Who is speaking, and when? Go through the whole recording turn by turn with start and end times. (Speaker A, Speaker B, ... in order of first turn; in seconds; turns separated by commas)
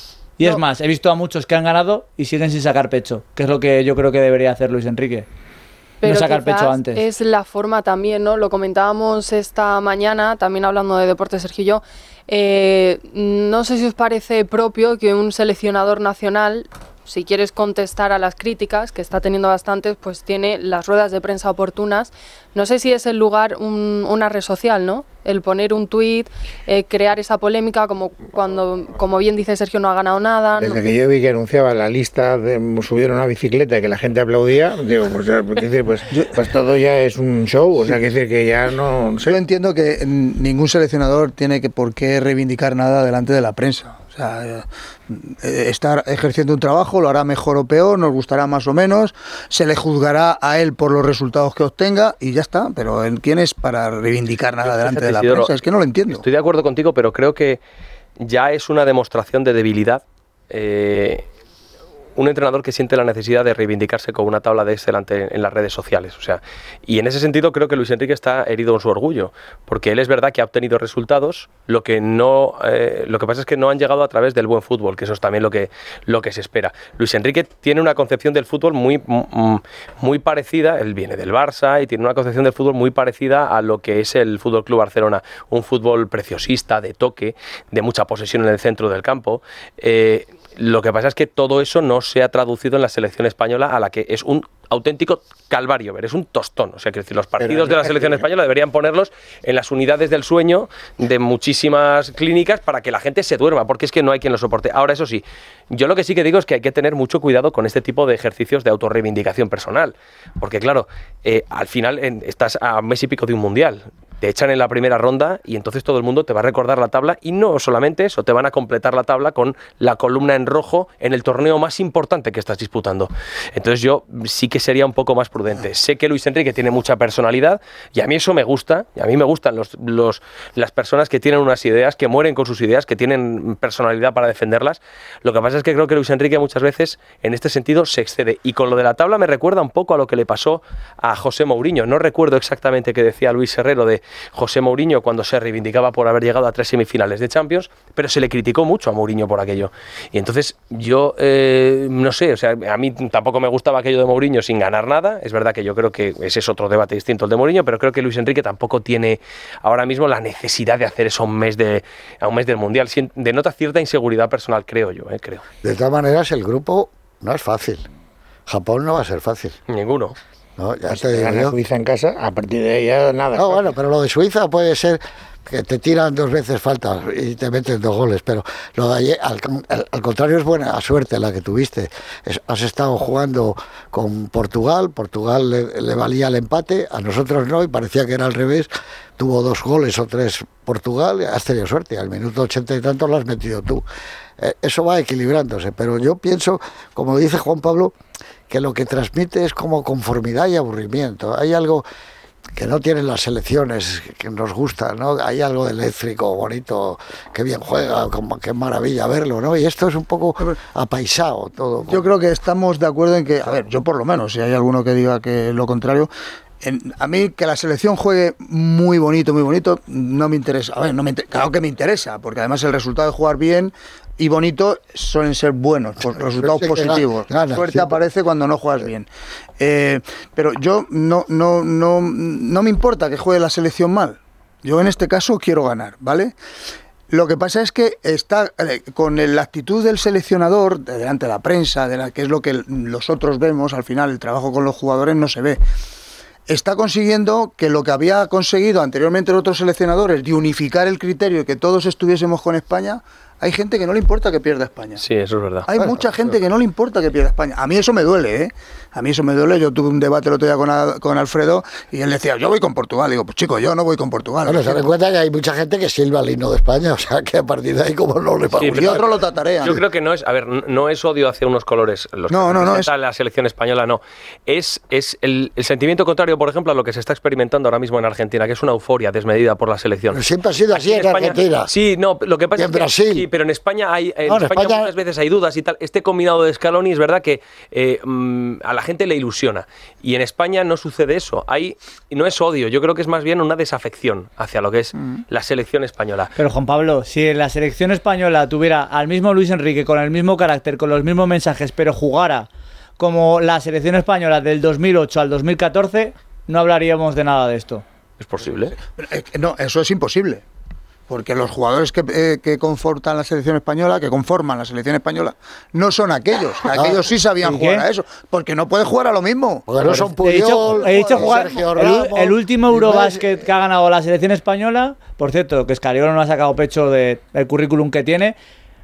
Speaker A: 0.4-5.3, Speaker B: 6.0-30.8, Speaker A: 6.0-7.0, Speaker C: 30.6-39.4, Speaker D: 39.2-56.2, Speaker E: 54.6-55.5, Speaker E: 56.1-57.6, Speaker E: 58.2-61.2, Speaker E: 62.2-165.4, Speaker C: 97.4-98.2, Speaker F: 165.6-167.8, Speaker F: 168.5-169.6, Speaker E: 169.7-170.2, Speaker F: 170.6-171.6, Speaker C: 170.9-173.7, Speaker F: 173.3-193.8, Speaker F: 194.4-197.9, Speaker F: 198.5-201.9, Speaker F: 202.5-212.1, Speaker D: 211.9-216.1, Speaker D: 216.6-229.1, Speaker F: 226.3-227.9, Speaker D: 229.6-236.3, Speaker D: 237.1-245.6, Speaker D: 246.5-255.0, Speaker E: 255.0-255.7, Speaker D: 255.7-264.9, Speaker F: 264.4-269.1, Speaker E: 268.6-269.0, Speaker D: 268.6-269.8, Speaker E: 269.6-296.3, Speaker D: 272.3-272.9, Speaker F: 280.1-281.7, Speaker F: 282.6-283.3, Speaker F: 284.3-284.9, Speaker A: 296.4-302.5, Speaker A: 303.0-307.8, Speaker E: 308.2-308.8, Speaker D: 309.0-310.4, Speaker D: 311.1-320.1, Speaker F: 316.8-317.1, Speaker A: 317.4-317.9, Speaker F: 319.7-323.4, Speaker A: 319.9-328.4, Speaker D: 320.7-321.4